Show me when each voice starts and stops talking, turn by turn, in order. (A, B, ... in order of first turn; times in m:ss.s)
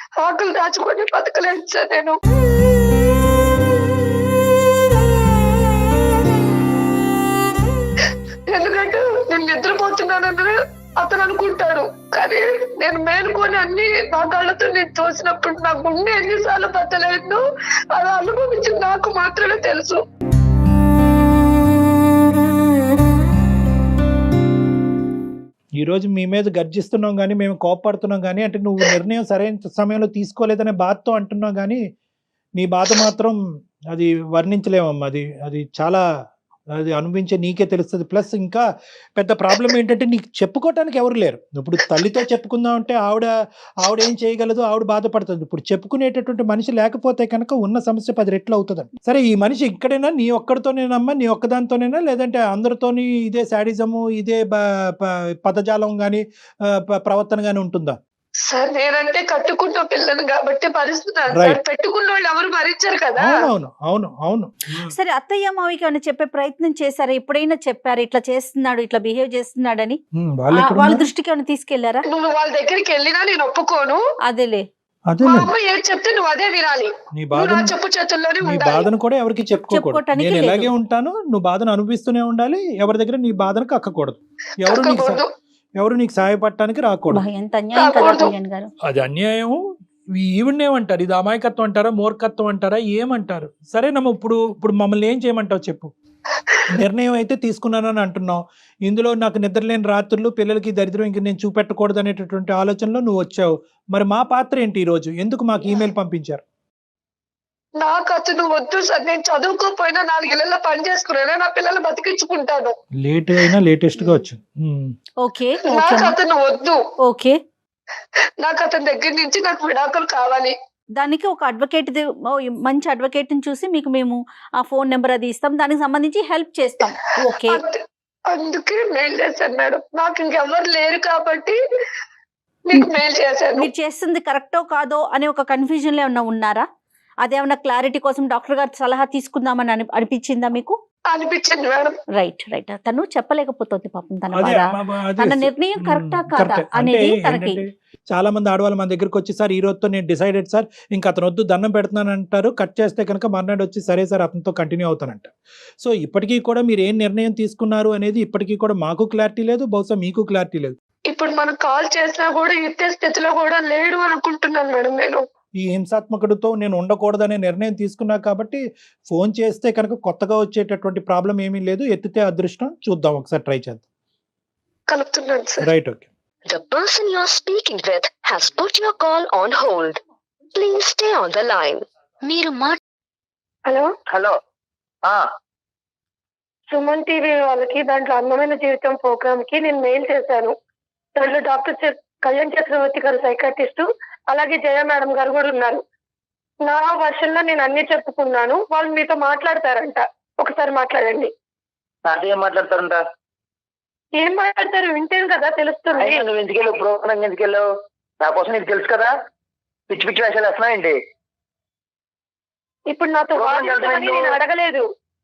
0:00.2-0:02.2 A
0:08.5-0:20.0 A
0:25.8-0:31.8 B
0:32.6-0:33.4 B
0:33.9-0:36.0 B
0:36.8-0:38.6 B
0:39.2-0:43.3 B
0:43.8-0:58.0 B
0:58.5-1:03.5 A
1:01.3-1:01.6 B
1:03.2-1:04.9 B
1:04.8-1:10.0 C
1:10.2-1:11.1 B
1:10.5-1:12.0 C
1:12.1-1:14.0 A
1:14.3-1:14.7 C
1:15.1-1:15.5 B
1:15.2-1:18.9 A
1:17.2-1:17.7 B
1:18.4-1:25.2 B
1:19.7-1:20.7 C
1:24.7-1:25.3 A
1:25.8-1:27.2 B
1:27.1-1:28.7 C
1:27.8-1:28.3 A
1:28.9-1:29.6 B
1:30.2-1:35.9 B
1:36.7-1:46.4 B
1:47.8-1:52.8 A
1:53.0-1:54.9 B
1:55.2-1:56.2 C
1:55.6-1:56.8 A
1:57.0-1:57.4 C
1:58.4-2:00.6 A
2:01.0-2:07.6 C
2:07.3-2:11.6 A
2:12.7-2:13.7 A
2:13.6-2:16.7 C
2:17.2-2:20.8 C
2:21.1-2:22.0 A
2:22.2-2:27.6 C
2:24.4-2:40.8 B
2:41.1-2:45.2 A
2:45.6-2:53.8 B
2:54.9-2:55.7 A
2:55.6-2:56.1 B
2:56.5-3:00.0 D
3:00.6-3:02.8 D
3:04.1-3:04.4 E
3:06.7-3:10.6 A
3:11.2-3:15.8 A
3:16.6-3:21.3 A
3:22.1-3:23.0 E
3:24.2-3:26.2 A
3:26.0-3:27.6 E
3:28.2-3:29.1 E
3:29.9-3:31.0 E
3:32.9-3:34.8 A
3:33.4-3:34.4 E